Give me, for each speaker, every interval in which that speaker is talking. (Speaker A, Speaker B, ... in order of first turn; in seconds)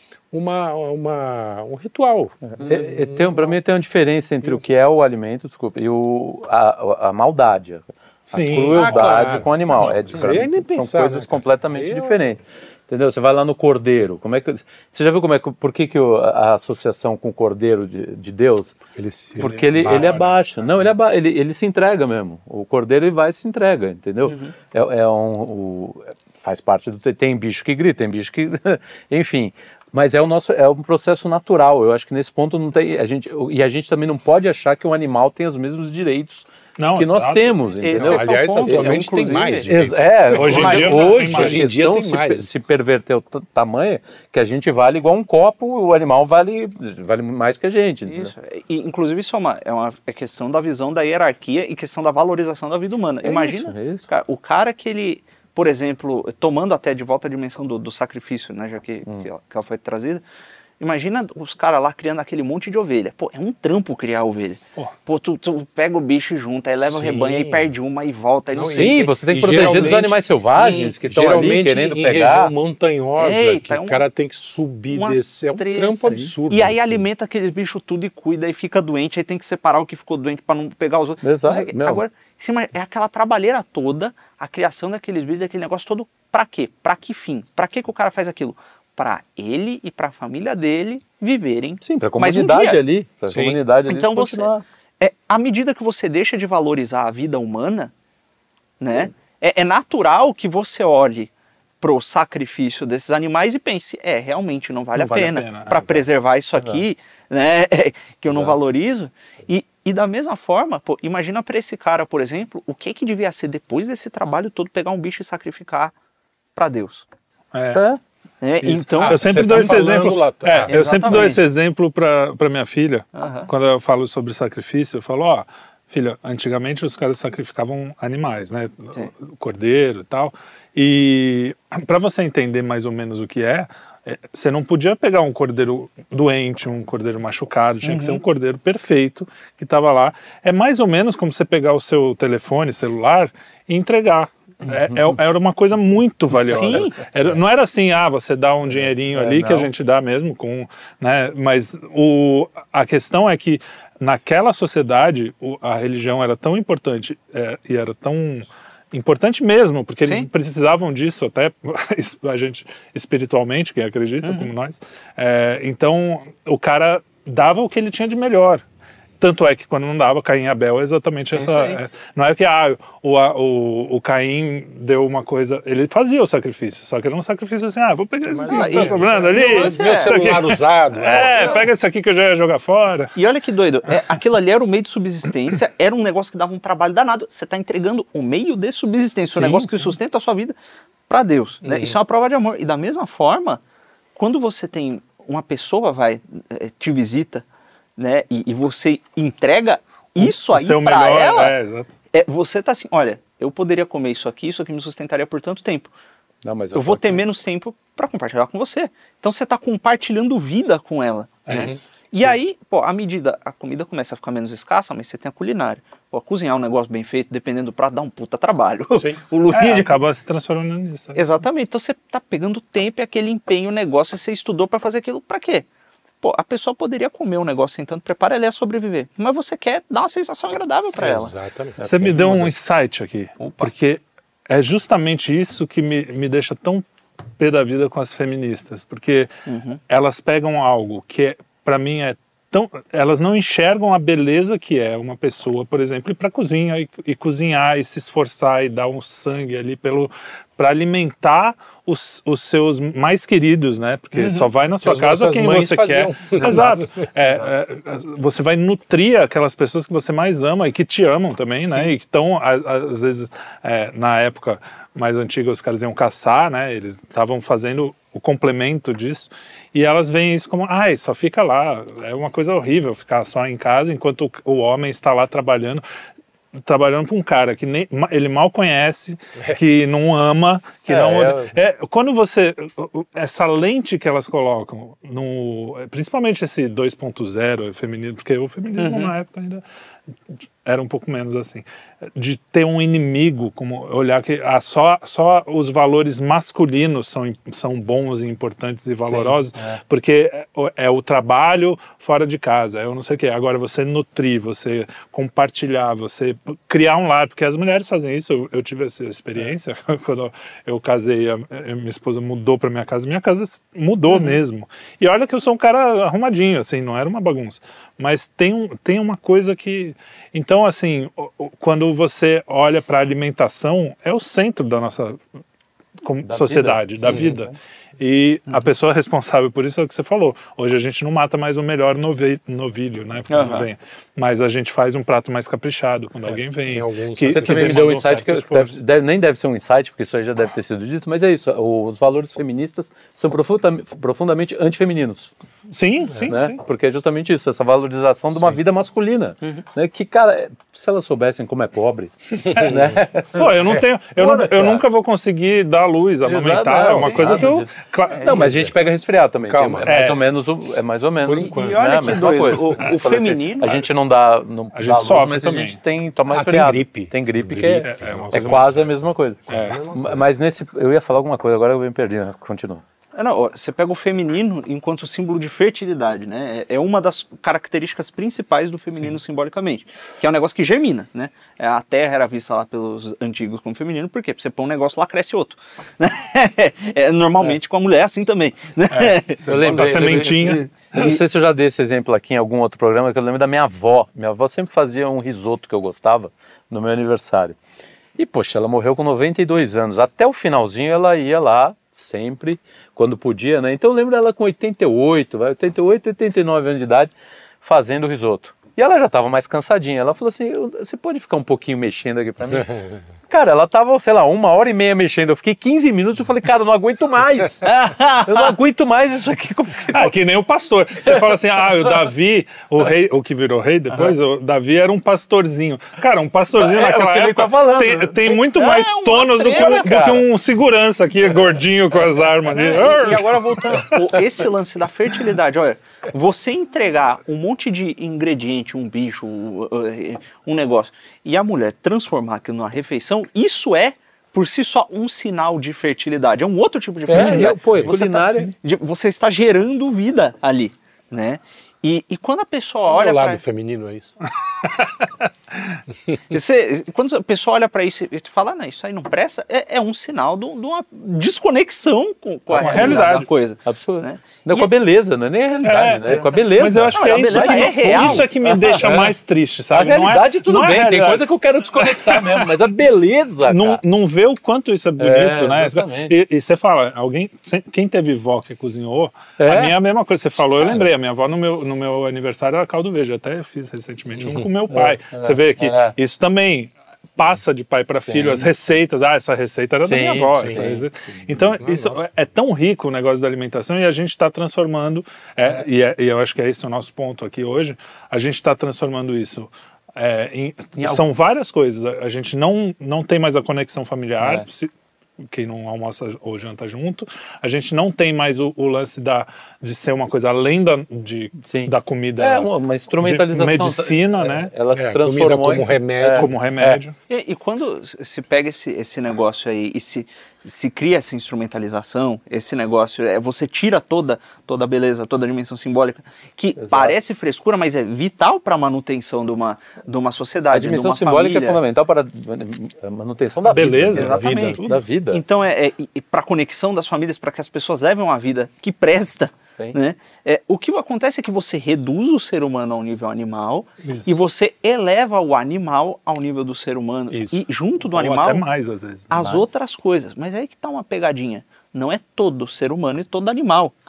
Speaker A: 0.3-3.5, 8.7-12.2, 18.9-20.4, 38.0-42.5, 66.8-67.7, 68.5-77.1, 93.3-93.6, 118.6-121.3, 178.3-181.6, 191.6-191.9, 211.5-212.3, 218.9-219.2, 231.0-231.8, 254.2-257.1, 336.7-338.0, 358.3-358.8, 359.5-360.1, 361.2-362.6, 366.3-369.0, 369.5-370.3, 389.5-390.0, 447.2-447.9, 452.9-454.1, 484.2-484.5, 490.4-490.7, 491.6-492.1, 514.7-516.4, 534.0-534.6, 547.1-547.4
Speaker B: 2.6-18.8, 19.4-48.3, 53.2-54.1, 68.5-72.5, 81.2-82.0, 91.8-94.7, 117.7-118.0, 144.7-145.0, 149.2-149.7, 206.4-207.2, 231.8-232.5, 280.9-281.5, 299.0-299.8, 326.3-327.5, 337.2-345.3, 346.3-354.8, 356.2-372.8, 389.4-397.6, 398.2-407.1, 407.6-412.7, 413.3-420.1, 421.0-421.9, 426.6-428.4, 429.5-430.2, 447.1-448.5, 462.5-463.1, 463.6-469.1, 469.7-473.8, 475.0-476.1, 479.4-479.8, 484.7-485.9, 488.1-488.5, 489.8-491.5, 500.8-501.0, 511.4-516.8, 526.6-527.0, 530.5-535.2, 549.1-549.4
Speaker C: 8.3-10.1, 36.8-37.6, 40.3-41.7, 104.9-106.0, 117.5-117.8, 119.1-168.6, 169.2-183.1, 189.3-189.9, 200.2-201.9, 219.5-221.2, 231.8-236.8, 237.4-239.3, 239.9-275.8, 276.6-289.6, 290.6-291.6, 292.1-325.2, 326.0-338.8, 345.7-346.6, 352.5-352.8, 353.3-358.3, 359.8-360.2, 364.8-365.8, 367.8-368.9, 369.5-369.8, 388.9-391.1, 419.9-434.3, 447.2-447.5, 454.6-455.8, 462.5-463.3, 465.6-472.7, 473.5-504.7, 505.3-512.5, 513.0-514.5, 516.1-517.0, 533.5-534.8, 543.8-544.1, 547.9-549.1
Speaker D: 24.3-24.5, 37.8-39.7, 40.4-41.3, 48.1-60.2, 60.8-71.0, 73.2-74.0, 74.9-92.8, 93.9-97.9, 98.8-115.9, 116.5-117.0, 118.4-119.8, 120.7-121.4, 123.2-123.5, 137.8-138.2, 146.4-147.0, 160.0-160.3, 164.2-164.5, 171.3-171.8, 178.5-180.4, 181.1-181.7, 183.2-190.6, 191.1-193.6, 194.2-197.4, 198.0-201.5, 202.1-205.9, 206.7-220.0, 221.2-225.7, 226.2-231.3, 239.5-239.8, 288.8-289.1, 314.1-314.4, 333.3-333.7, 357.0-357.4, 358.1-358.5, 361.4-363.7, 373.1-389.4, 390.4-391.2, 417.7-418.5, 428.5-430.2, 432.5-453.4, 456.3-464.7, 465.6-466.2, 466.9-468.3, 517.1-531.6, 534.0-548.5, 549.1-553.8